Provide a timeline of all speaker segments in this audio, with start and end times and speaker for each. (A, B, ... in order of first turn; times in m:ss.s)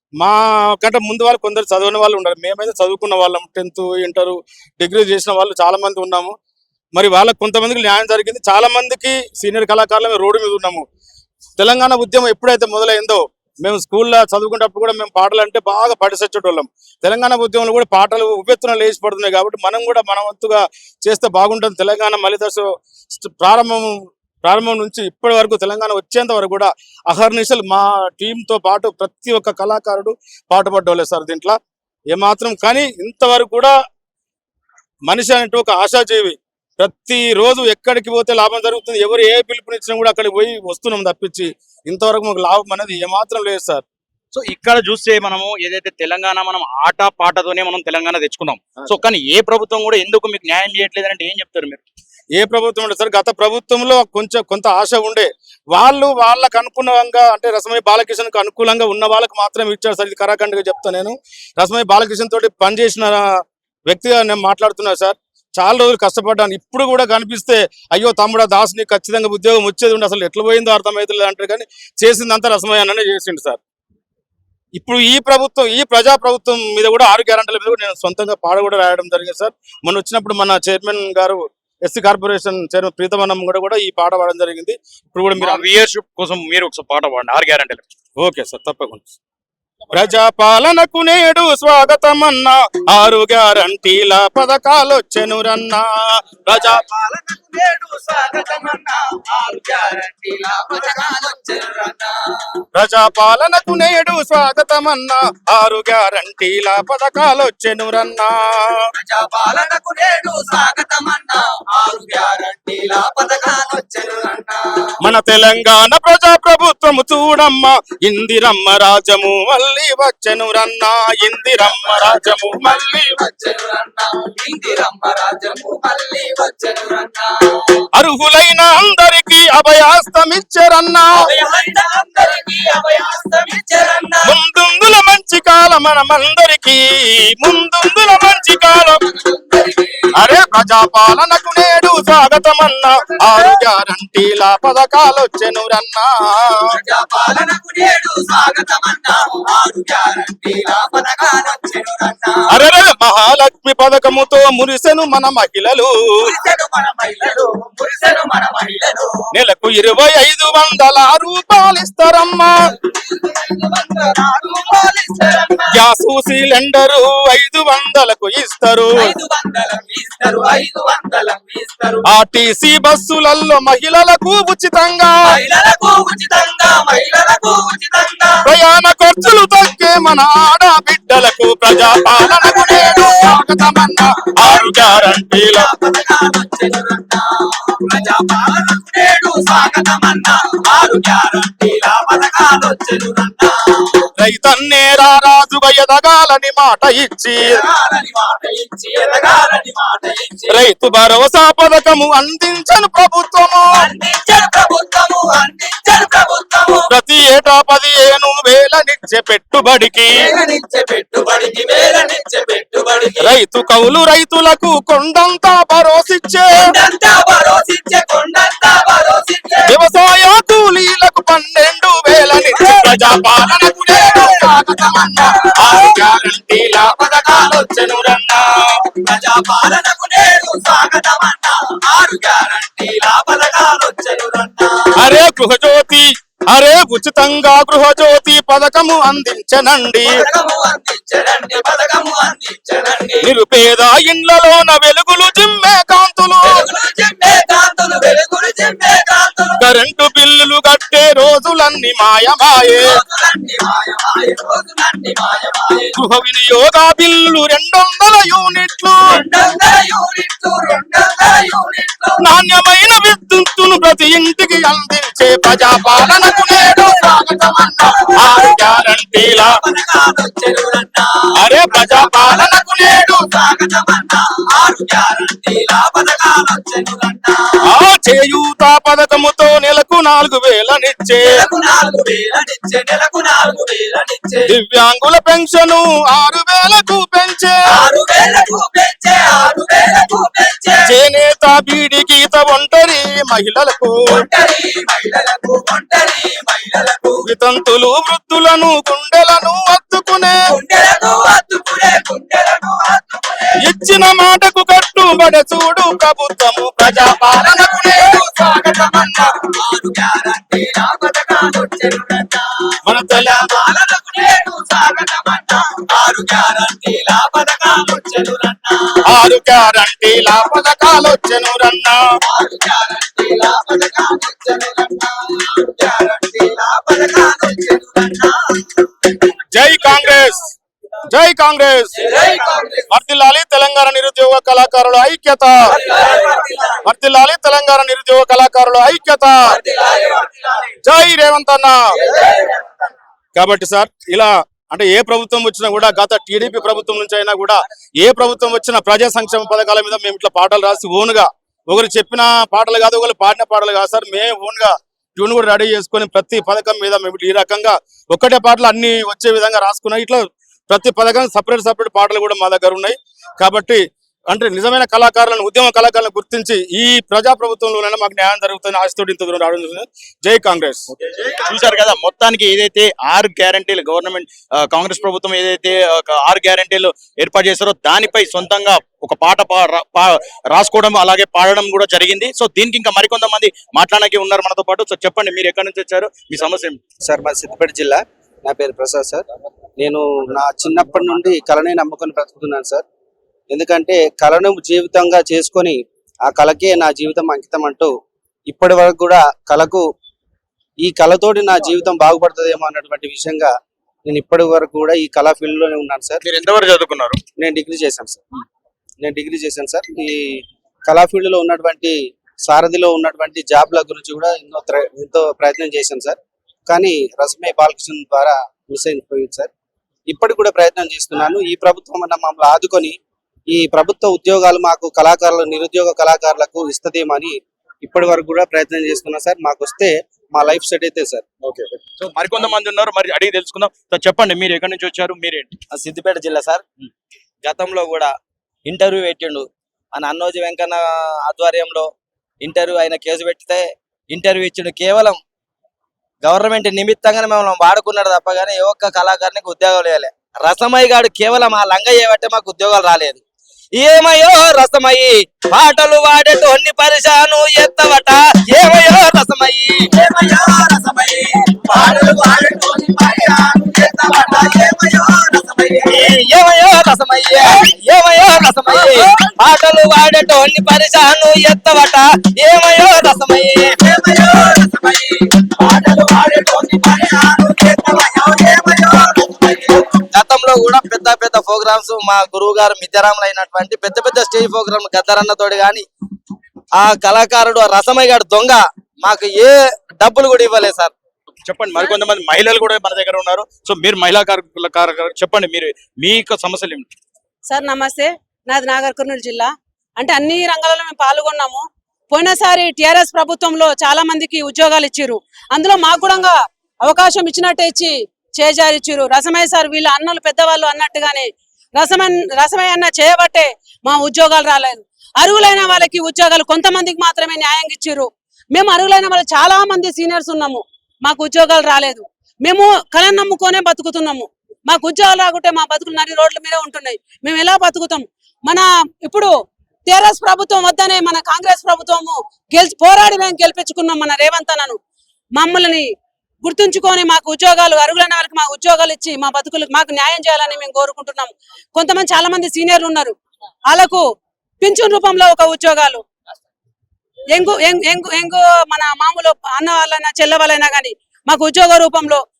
0:00.2-0:06.3 A
0:06.9-0:10.8 A
0:11.6-0:23.9 A
0:24.4-0:31.6 A
0:32.1-0:33.7 A
0:35.1-0:43.8 A
0:44.3-0:51.8 B
0:52.4-1:03.2 A
1:03.9-1:13.6 A
1:14.7-1:25.6 A
1:25.4-1:27.8 B
1:28.2-1:29.1 A
1:29.9-1:36.8 A
1:37.3-1:42.1 C
1:42.7-1:48.8 A
1:49.0-1:54.6 C
1:55.0-2:03.2 A
2:02.0-2:07.8 C
2:07.9-2:11.3 A
2:11.4-2:14.3 C
2:14.2-2:19.0 A
2:19.1-2:20.0 C
2:20.1-2:26.6 A
2:26.8-2:32.5 C
2:32.5-2:36.4 A
2:36.3-2:39.2 C
2:39.3-2:42.5 A
2:42.9-2:45.7 C
2:45.7-2:49.2 A
2:49.0-2:52.0 C
2:52.0-2:55.4 A
2:55.3-2:58.5 C
2:58.4-3:05.7 A
3:02.1-3:03.1 C
3:04.6-3:14.0 C
3:14.2-3:17.6 A
3:17.5-3:20.4 C
3:20.5-3:23.6 A
3:23.8-3:26.9 C
3:26.9-3:30.3 A
3:30.2-3:33.3 C
3:33.2-3:36.7 A
3:36.6-3:39.7 C
3:39.7-3:48.6 A
3:42.6-3:45.9 C
3:46.8-3:48.2 C
3:48.9-3:54.9 C
3:54.9-4:00.2 A
4:00.3-4:03.3 C
4:03.2-4:06.7 A
4:06.4-4:09.6 C
4:09.6-4:13.0 A
4:12.8-4:15.9 C
4:15.9-4:19.2 A
4:19.1-4:22.1 C
4:22.2-4:29.6 A
4:25.9-4:28.6 C
4:29.4-4:37.5 C
4:31.4-4:33.2 A
4:37.7-4:41.4 A
4:41.3-4:44.5 C
4:44.5-4:47.8 A
4:47.7-4:50.9 C
4:50.8-4:54.2 A
4:54.1-4:57.2 C
4:57.2-5:00.4 A
5:00.5-5:03.5 C
5:03.6-5:08.1 A
5:07.0-5:19.0 C
5:12.8-5:13.5 A
5:19.1-5:22.0 A
5:22.3-5:29.1 C
5:29.5-5:30.5 A
5:31.1-5:32.1 A
5:32.0-5:32.8 C
5:32.9-5:35.6 A
5:35.8-5:36.7 C
5:36.8-5:39.6 A
5:39.7-5:40.4 C
5:40.8-5:41.7 A
5:42.3-5:42.6 C
5:43.4-6:10.9 A
6:11.1-6:26.8 B
6:27.0-6:29.2 D
6:29.8-6:32.8 D
6:33.5-6:37.9 D
6:38.5-6:39.8 D
6:40.8-6:43.5 D
6:44.1-6:46.2 D
6:46.2-6:47.2 B
6:47.4-6:48.2 D
6:49.0-6:59.5 D
7:00.1-7:03.0 D
7:03.5-7:11.2 D
7:11.6-7:15.6 B
7:15.7-7:16.6 E
7:17.4-7:18.1 E
7:18.6-7:21.9 E
7:22.4-7:25.2 E
7:26.2-7:33.2 E
7:33.7-7:54.3 E
7:55.8-7:56.1 E
7:55.9-7:58.3 C
7:56.9-7:58.7 E
7:59.3-7:59.8 C
7:59.5-8:05.8 E
8:06.8-8:10.9 E
8:11.4-8:16.9 B
8:17.5-8:49.3 F
8:49.9-8:54.8 F
8:55.4-8:55.9 F
8:56.4-9:03.1 F
9:03.7-9:04.0 F
9:04.6-9:06.0 F
9:07.3-9:12.2 F